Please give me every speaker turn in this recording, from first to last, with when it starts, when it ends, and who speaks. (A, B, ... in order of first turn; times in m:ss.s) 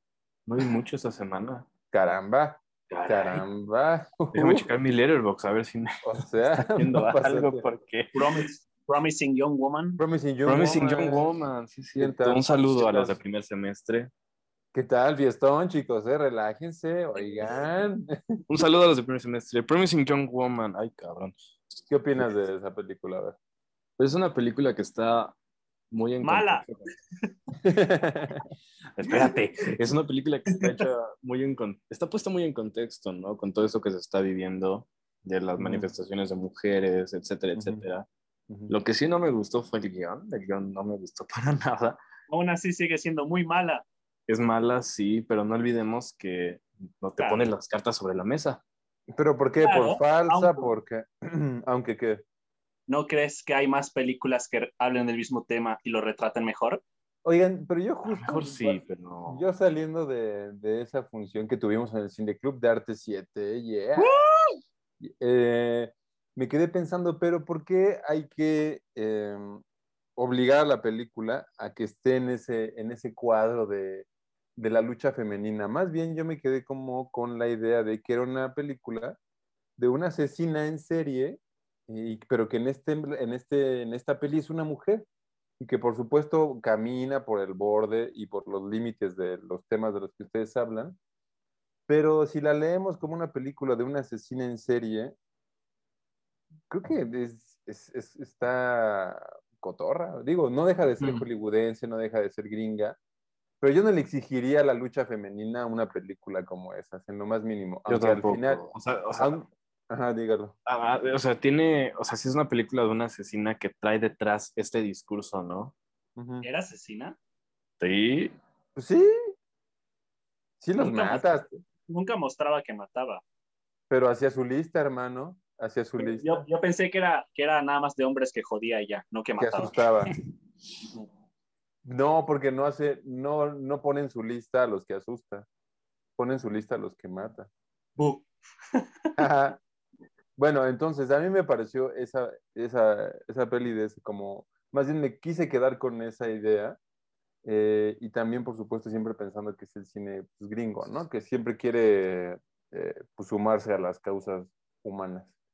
0:00.5-0:01.7 A
0:01.9-0:04.7 B
0:02.9-0:03.4 A
0:04.3-0:05.9 A
0:06.0-0:07.6 B
0:06.7-0:08.2 A
0:08.1-0:10.0 C
0:10.0-0:11.3 B
0:10.4-0:14.1 A
0:12.0-0:13.2 B
0:14.7-0:18.4 B
0:18.5-0:21.3 A
0:21.9-0:23.4 B
0:24.0-0:25.4 A
0:25.9-0:26.9 A
0:26.2-0:26.7 C
0:27.6-0:28.4 B
0:29.0-0:38.0 A
0:35.6-0:35.9 B
0:37.5-0:37.8 B
0:38.7-0:42.0 A
0:42.3-0:43.8 C
0:44.3-0:48.6 A
0:47.2-0:47.5 C
0:49.1-0:52.2 B
0:49.6-0:50.7 C
0:52.9-0:56.8 C
0:57.2-1:04.2 B
0:58.0-0:59.4 A
1:04.0-1:04.6 C
1:05.0-1:09.6 B
1:10.2-1:19.2 B
1:19.8-1:25.0 B
1:25.6-1:31.0 B
1:31.9-1:35.1 B
1:36.7-1:43.0 B
1:41.0-1:41.2 A
1:43.6-1:50.5 B
1:47.9-1:49.4 A
1:50.6-1:55.7 A
1:56.2-1:56.4 B
1:56.4-1:57.2 C
1:57.8-1:58.3 A
1:58.8-1:59.1 B
2:00.6-2:01.6 B
2:00.8-2:01.2 C
2:01.9-2:03.2 C
2:03.9-2:06.4 B
2:06.0-2:09.8 C
2:09.4-2:10.1 B
2:11.8-2:15.5 B
2:16.2-2:17.5 B
2:18.0-2:18.2 C
2:19.2-2:19.6 B
2:20.4-2:26.8 B
2:27.4-2:35.3 B